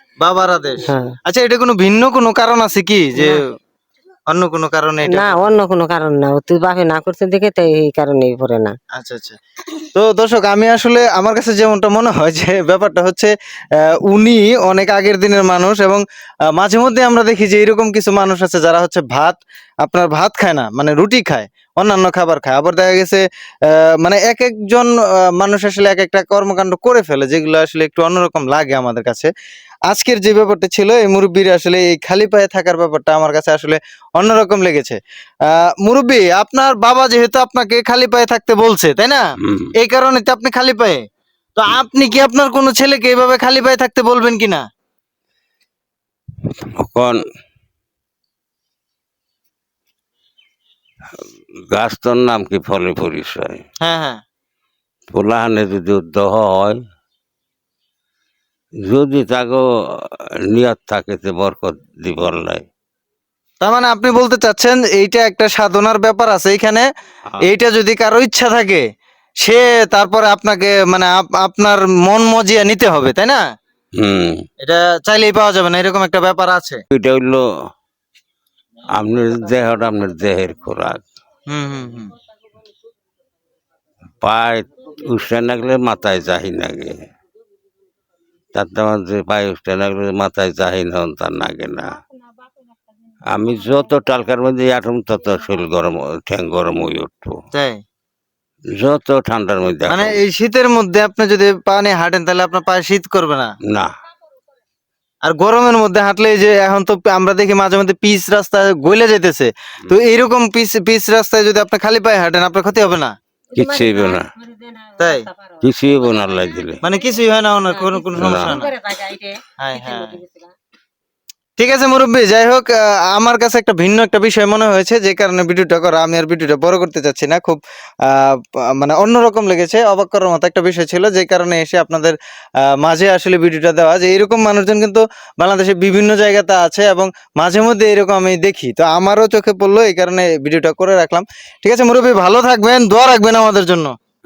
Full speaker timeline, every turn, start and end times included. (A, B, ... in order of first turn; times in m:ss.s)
0:00.2-0:03.4 A
0:00.8-0:01.2 B
0:03.2-0:03.4 B
0:04.3-0:05.4 A
0:05.1-0:08.7 B
0:09.0-0:09.4 A
0:09.9-0:13.3 A
0:14.1-0:16.0 A
0:16.6-0:29.3 A
0:29.9-0:39.2 A
0:39.4-0:39.7 C
0:39.8-0:41.0 A
0:41.6-0:44.6 A
0:46.8-0:47.2 C
0:51.2-0:53.6 C
0:53.8-0:54.2 A
0:55.1-0:56.8 C
0:58.9-1:02.6 C
1:03.6-1:06.9 A
1:07.4-1:08.8 A
1:09.4-1:13.4 A
1:14.0-1:14.4 C
1:14.6-1:16.8 A
1:16.9-1:17.4 C
1:18.9-1:21.0 C
1:21.5-1:22.1 A
1:24.2-1:27.0 C
1:28.5-1:32.0 C
1:33.3-1:37.4 C
1:37.5-1:37.8 A
1:38.8-1:40.2 C
1:39.9-1:43.5 A
1:45.2-1:53.2 A
1:53.5-1:57.0 B
1:53.6-1:54.3 C
1:55.0-1:55.3 A
1:55.6-1:56.8 C
1:56.8-1:58.7 A
1:57.7-2:00.5 B
1:58.2-1:58.6 C
1:59.6-2:00.2 A
2:01.6-2:12.2 A
2:12.8-2:23.9 A